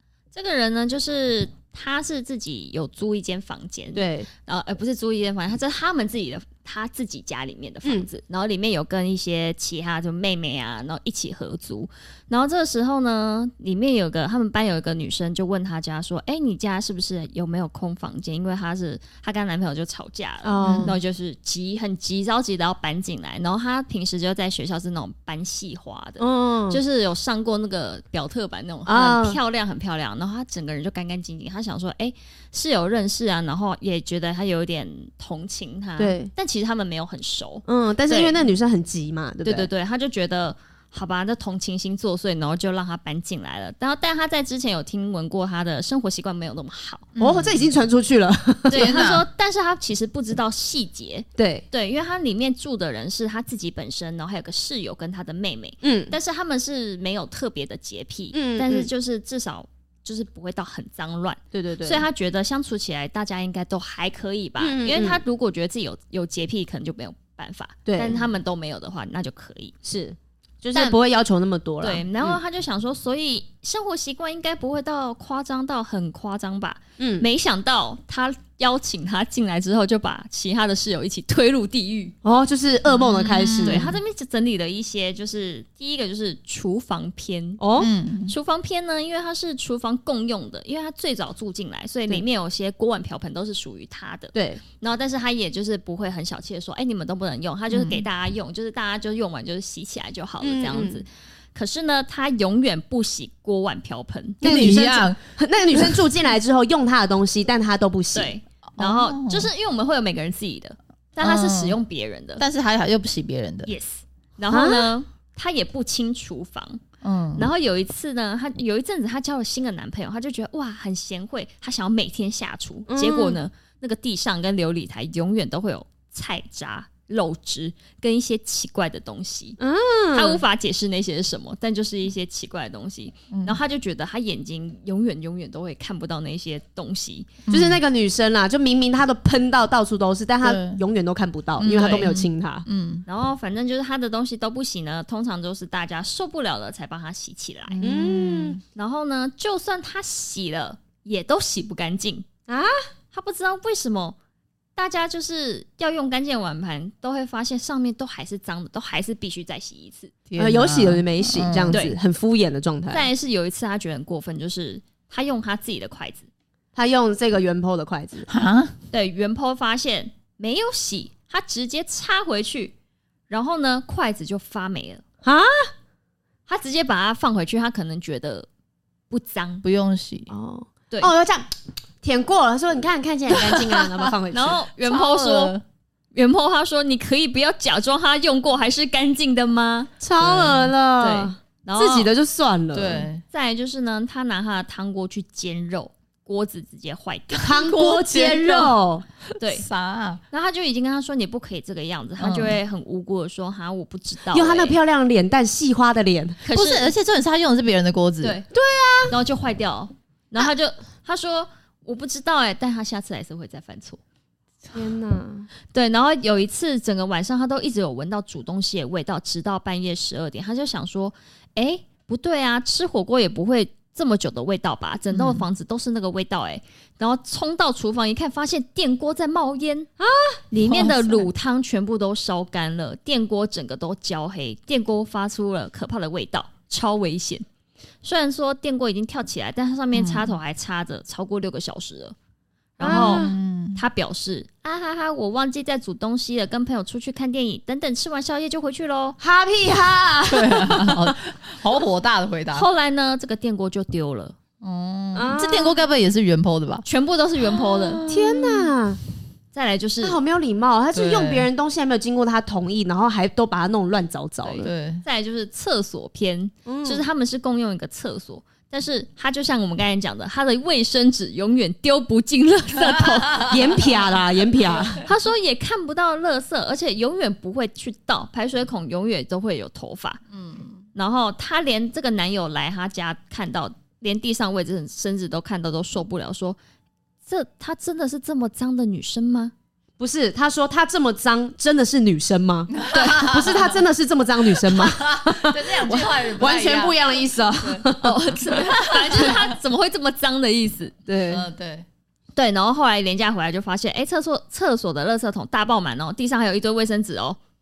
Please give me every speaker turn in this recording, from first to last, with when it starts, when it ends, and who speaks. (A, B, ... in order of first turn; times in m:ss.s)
0:00.3-0:38.5 A
0:04.0-0:04.3 B
0:20.4-0:21.0 B
0:20.6-0:21.0 C
0:26.2-0:26.8 B
0:28.9-0:29.4 B
0:36.0-0:36.3 B
0:37.7-0:39.7 B
0:39.4-0:47.1 A
0:47.2-0:47.7 C
0:47.2-0:48.9 B
0:48.7-1:09.7 A
0:48.7-0:49.2 C
0:51.4-0:51.7 B
0:55.8-0:56.2 B
0:58.3-0:58.9 B
1:01.5-1:02.0 B
1:04.6-1:05.2 B
1:07.9-1:08.3 B
1:09.8-1:12.4 B
1:11.8-1:22.2 A
1:17.0-1:17.3 B
1:22.2-1:23.9 B
1:22.9-1:24.0 C
1:23.6-1:27.6 A
1:27.6-1:27.9 B
1:27.8-1:28.3 C
1:28.3-1:44.4 A
1:34.3-1:34.6 B
1:37.7-1:38.0 C
1:40.4-1:41.0 B
1:44.4-1:45.2 C
1:44.4-1:48.3 B
1:45.7-1:46.0 C
1:48.1-1:52.4 A
1:48.8-1:49.5 C
1:51.2-1:51.8 C
1:52.4-1:53.7 C
1:53.7-1:56.8 A
1:54.5-1:54.9 B
1:57.0-1:57.5 C
1:57.4-2:09.6 A
2:02.9-2:03.4 B
2:09.6-2:10.4 B
2:10.1-2:17.4 A
2:13.3-2:13.6 C
2:17.5-2:17.8 C
2:17.5-2:22.7 B
2:20.4-2:20.8 C
2:21.6-2:23.0 C
2:21.7-2:22.1 A
2:23.1-2:27.8 A
2:27.7-2:28.6 C
2:27.8-2:28.6 B
2:28.7-2:32.3 A
2:32.5-2:32.8 B
2:33.1-2:34.2 A
2:34.8-2:40.1 A
2:40.3-2:41.8 C
2:40.4-2:43.1 B
2:41.7-2:42.0 A
2:42.9-2:46.3 A
2:46.8-2:48.3 B
2:48.3-2:48.8 C
2:48.9-2:52.7 A
2:53.3-2:55.0 A
2:55.2-2:55.7 B
2:56.5-2:58.5 A
2:59.1-2:59.6 A
2:59.6-3:00.3 C
3:00.3-3:01.5 B
3:02.0-3:04.7 B
3:03.4-3:04.0 C
3:04.3-3:05.6 A
3:04.8-3:05.6 C
3:06.1-3:09.9 A
3:10.0-3:13.1 B
3:10.2-3:10.7 C
3:11.0-3:12.1 A
3:12.7-3:13.2 C
3:13.3-3:17.7 A
3:17.4-3:19.1 B
3:17.5-3:18.8 C
3:19.4-3:19.7 A
3:19.5-3:20.2 C
3:20.3-3:24.8 A
3:22.2-3:22.6 C
3:24.3-3:26.4 B
3:26.4-3:26.9 A
3:26.5-3:28.4 C
3:28.2-3:28.5 A
3:28.5-3:29.2 B
3:29.1-3:34.0 A
3:34.7-3:35.5 B
3:35.7-3:49.9 A
3:45.1-3:45.4 C
3:50.0-3:50.4 B
3:50.5-3:57.5 A
3:50.6-3:51.3 C
3:58.0-4:02.2 A
3:59.9-4:00.3 C
4:02.8-4:09.2 A
4:02.8-4:03.3 B
4:02.8-4:03.8 C
4:09.2-4:11.2 B
4:10.3-4:12.7 C
4:12.5-4:14.4 A
4:14.6-4:16.8 C
4:15.2-4:15.8 B
4:16.8-4:18.0 A
4:17.4-4:18.7 C
4:18.1-4:19.0 B
4:19.5-4:20.2 A
4:20.0-4:24.7 B
4:20.9-4:21.5 C
4:24.4-4:33.6 A
4:24.6-4:25.0 C
4:26.6-4:27.0 B
4:32.8-4:33.6 C
4:33.4-4:35.0 B
4:35.0-4:40.2 A
4:40.3-4:40.8 C
4:41.0-4:46.6 A
4:47.3-4:49.5 A
4:50.0-4:58.4 B
4:52.7-4:53.8 C
4:54.4-4:57.9 C
4:58.0-5:01.0 A
4:58.6-4:59.6 C
5:01.1-5:01.5 B
5:01.3-5:01.9 C
5:02.4-5:07.4 A